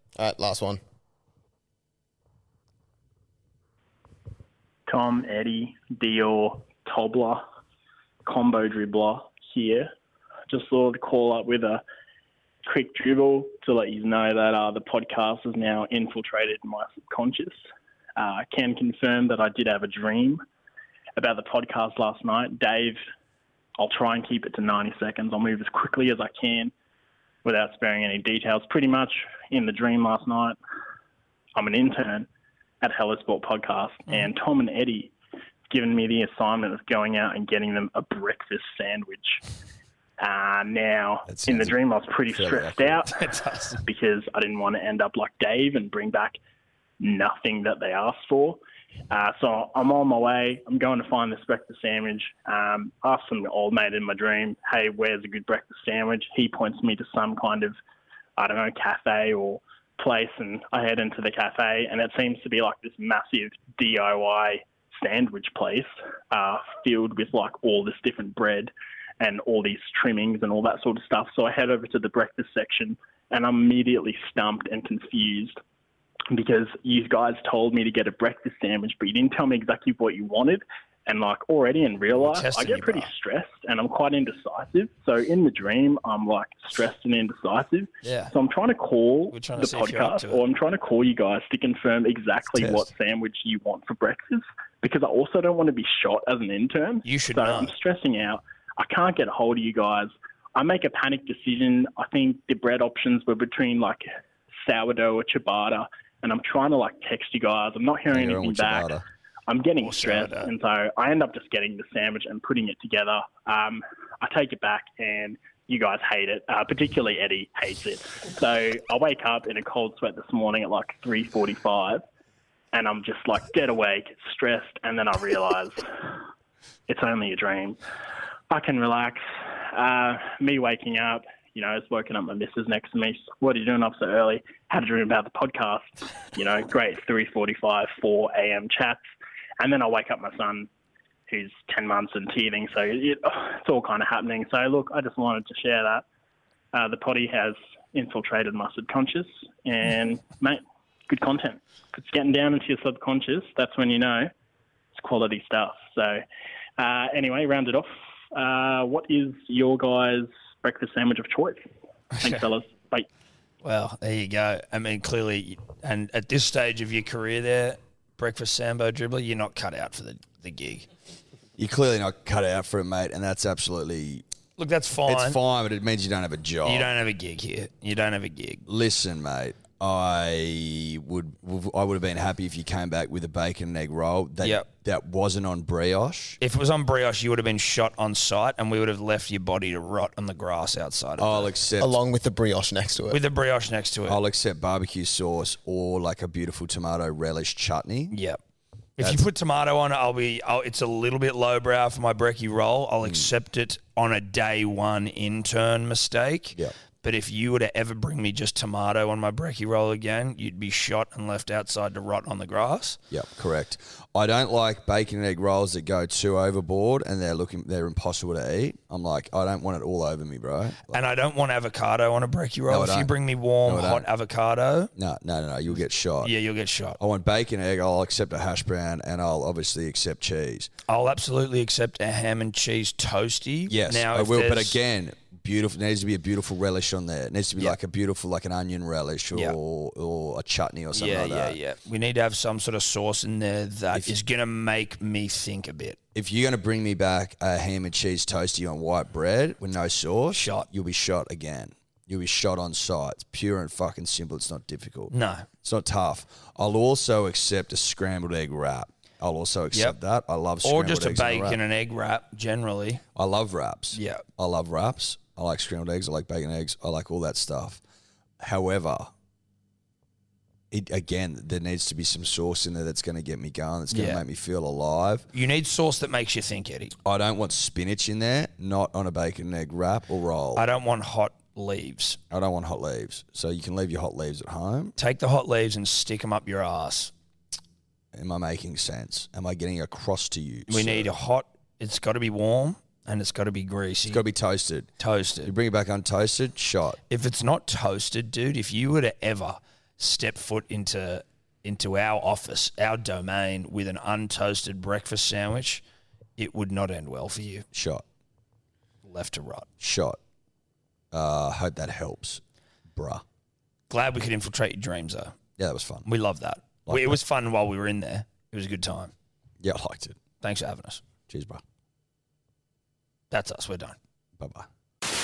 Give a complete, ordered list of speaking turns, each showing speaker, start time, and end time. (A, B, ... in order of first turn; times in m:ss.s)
0:00.2-0:00.8 A
0:04.9-0:07.4 B
0:08.2-0:09.9 B
0:10.5-0:11.8 B
0:12.6-0:17.6 B
0:18.2-0:20.4 B
0:21.2-0:23.0 B
0:23.8-0:26.7 B
0:27.4-0:30.6 B
0:31.5-0:32.3 B
0:32.8-0:35.1 B
0:35.7-0:39.4 B
0:40.2-0:43.2 B
0:41.2-0:43.0 C
0:43.1-0:43.8 D
0:43.8-0:46.4 B
0:47.0-0:57.8 B
0:58.4-1:15.6 B
1:16.3-1:44.0 B
1:22.1-1:23.1 D
1:28.0-1:28.3 D
1:29.3-1:30.4 D
1:32.6-1:32.8 D
1:37.0-1:37.7 D
1:44.6-2:02.0 B
1:48.1-1:49.0 C
1:49.8-1:50.5 D
2:02.7-2:05.8 B
2:06.9-2:07.8 B
2:08.5-2:19.0 B
2:19.6-2:20.7 B
2:21.3-2:26.0 B
2:26.7-2:34.3 B
2:34.9-2:36.2 B
2:36.8-2:41.7 B
2:42.2-2:43.1 B
2:43.6-2:50.9 D
2:51.6-2:54.2 C
2:54.6-2:55.4 D
2:55.0-2:56.9 C
2:56.6-2:58.6 D
2:58.6-3:06.4 C
3:04.4-3:04.7 D
3:06.4-3:11.5 D
3:11.2-3:12.0 C
3:11.8-3:13.2 A
3:13.1-3:14.2 D
3:14.1-3:18.1 C
3:18.1-3:18.4 D
3:19.0-3:33.0 D
3:19.0-3:19.2 C
3:23.0-3:23.3 C
3:33.1-3:41.0 C
3:40.9-3:44.9 D
3:42.7-3:44.1 C
3:44.9-3:46.3 C
3:46.2-3:47.0 D
3:47.0-3:50.7 C
3:50.9-3:54.8 D
3:53.7-4:01.6 C
4:00.9-4:06.0 D
4:06.1-4:21.6 C
4:10.3-4:10.7 D
4:15.1-4:15.5 D
4:20.6-4:23.0 D
4:23.1-4:27.8 C
4:23.9-4:24.2 D
4:28.4-4:29.1 C
4:30.7-4:35.3 C
4:33.9-4:34.2 D
4:35.3-4:36.9 D
4:37.0-4:40.6 C
4:40.5-4:42.2 D
4:42.3-4:44.9 C
4:45.0-4:47.1 D
4:48.1-4:51.1 C
4:50.7-4:54.2 D
4:54.0-4:54.9 C
4:55.0-4:55.5 D
4:55.4-4:57.0 C
4:57.1-5:05.8 D
5:06.4-5:07.7 D
5:07.7-5:08.0 C
5:09.0-5:09.7 D
5:09.8-5:10.2 C
5:11.1-5:12.4 C
5:12.9-5:13.2 C
5:13.9-5:15.4 D
5:15.6-5:16.1 C
5:16.0-5:19.1 D
5:16.9-5:17.2 C
5:19.6-5:20.2 C
5:20.4-5:21.0 D
5:21.3-5:21.6 C
5:23.3-5:24.0 D
5:24.4-5:24.7 C